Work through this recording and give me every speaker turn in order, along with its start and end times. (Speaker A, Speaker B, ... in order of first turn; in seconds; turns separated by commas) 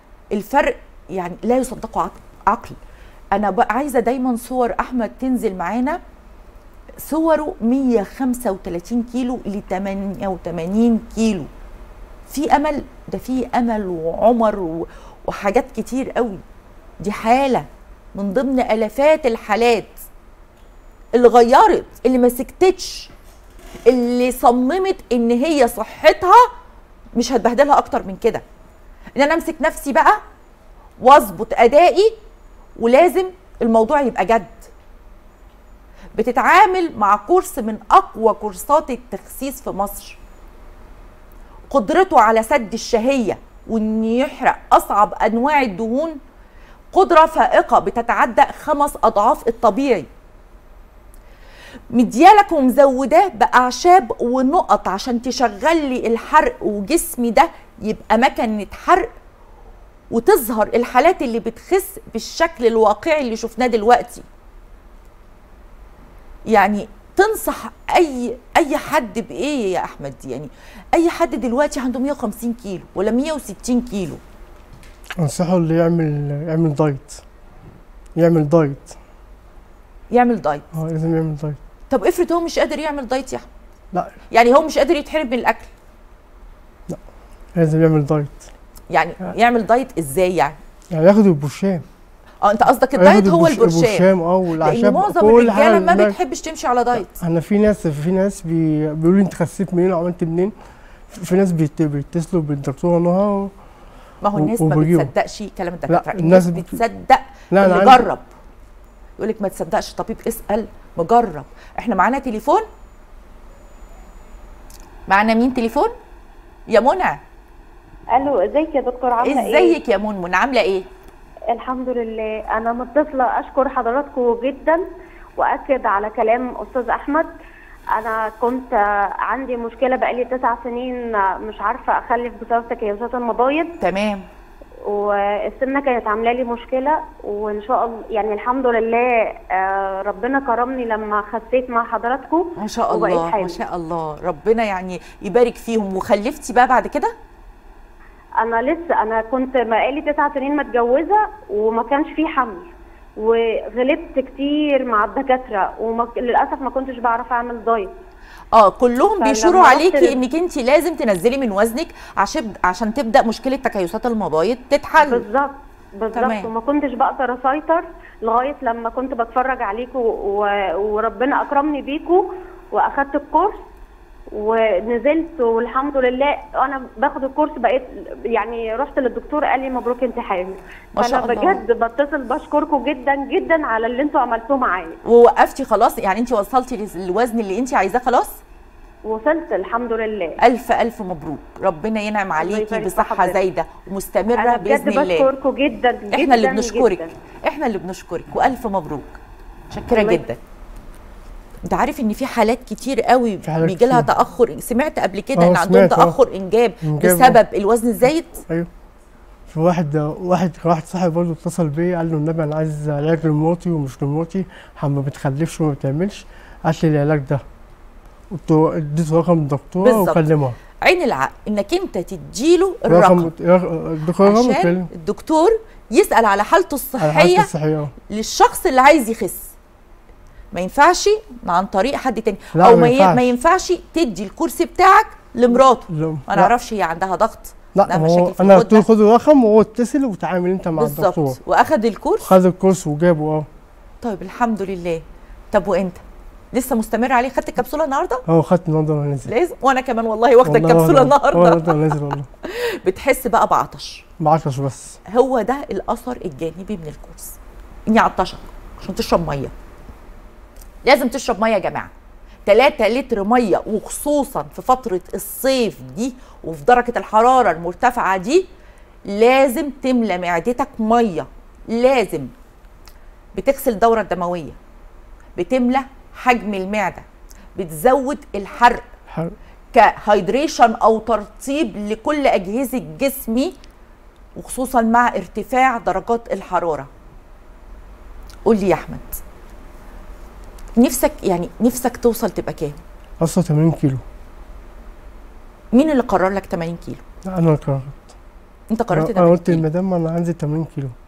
Speaker A: 0.3-2.8, Speaker A: 3.3-6.0, Speaker A: 7.0-11.5, Speaker A: 12.3-16.4, Speaker A: 17.0-19.9, Speaker A: 21.1-23.1, Speaker A: 23.9-26.5, Speaker A: 27.1-28.4, Speaker A: 29.2-30.2, Speaker A: 31.0-32.1, Speaker A: 32.8-34.7, Speaker A: 36.1-40.2, Speaker A: 41.7-46.2, Speaker A: 46.9-50.1, Speaker A: 51.9-59.1, Speaker A: 60.1-64.2, Speaker A: 66.5-74.2, Speaker B: 75.2-77.2, Speaker B: 78.2-79.0, Speaker A: 80.1-80.6, Speaker B: 80.7-81.6, Speaker A: 81.9-83.5, Speaker A: 84.3-85.7, Speaker B: 87.5-88.5, Speaker A: 88.9-90.6, Speaker B: 90.9-91.8, Speaker A: 92.4-94.1, Speaker B: 93.0-96.2, Speaker A: 94.6-97.1, Speaker B: 97.1-100.5, Speaker B: 101.1-103.5, Speaker A: 104.2-108.2, Speaker B: 104.4-105.1, Speaker B: 105.9-106.8, Speaker B: 107.5-108.1, Speaker A: 109.2-112.7, Speaker A: 115.1-115.9, Speaker A: 116.7-117.2, Speaker C: 118.1-119.8, Speaker A: 119.2-120.9, Speaker C: 121.5-124.8, Speaker C: 125.4-127.3, Speaker C: 127.9-133.8, Speaker A: 133.8-134.3, Speaker C: 134.8-143.6, Speaker A: 142.6-147.1, Speaker C: 148.4-157.9, Speaker A: 158.6-165.3, Speaker C: 159.2-160.2, Speaker C: 165.0-173.6, Speaker A: 166.1-166.5, Speaker C: 174.3-185.0, Speaker A: 180.9-181.6, Speaker A: 185.1-188.4, Speaker C: 189.1-190.4, Speaker A: 190.4-195.3, Speaker C: 192.4-193.4, Speaker C: 194.4-197.1, Speaker A: 196.1-199.2, Speaker A: 199.7-200.4, Speaker C: 199.9-200.2, Speaker A: 201.7-208.4, Speaker B: 203.4-204.1, Speaker B: 205.4-206.2, Speaker B: 206.8-207.4, Speaker B: 209.5-217.4, Speaker B: 218.3-220.6, Speaker A: 219.8-220.2, Speaker A: 220.8-223.3, Speaker B: 222.9-224.9, Speaker A: 224.2-227.5, Speaker B: 227.0-227.9, Speaker A: 228.1-229.5, Speaker A: 230.5-238.9, Speaker B: 232.6-233.3, Speaker B: 235.9-236.5, Speaker B: 237.7-241.4, Speaker A: 240.8-242.3, Speaker B: 242.2-243.5, Speaker A: 244.0-246.0, Speaker A: 246.5-248.2, Speaker B: 248.3-249.3, Speaker A: 249.3-254.1, Speaker B: 250.4-252.3, Speaker B: 254.2-255.0, Speaker A: 255.1-257.4, Speaker A: 257.9-259.5, Speaker A: 260.8-261.9, Speaker A: 262.4-268.5, Speaker A: 269.1-272.3, Speaker A: 273.4-274.6, Speaker A: 275.4-277.1, Speaker A: 277.6-278.9, Speaker B: 279.1-279.3, Speaker A: 279.7-283.5, Speaker A: 284.4-286.9, Speaker A: 288.4-289.2, Speaker A: 290.8-292.8, Speaker B: 293.2-294.0, Speaker A: 295.7-297.0, Speaker B: 297.3-298.1, Speaker A: 298.7-299.6, Speaker B: 298.9-300.9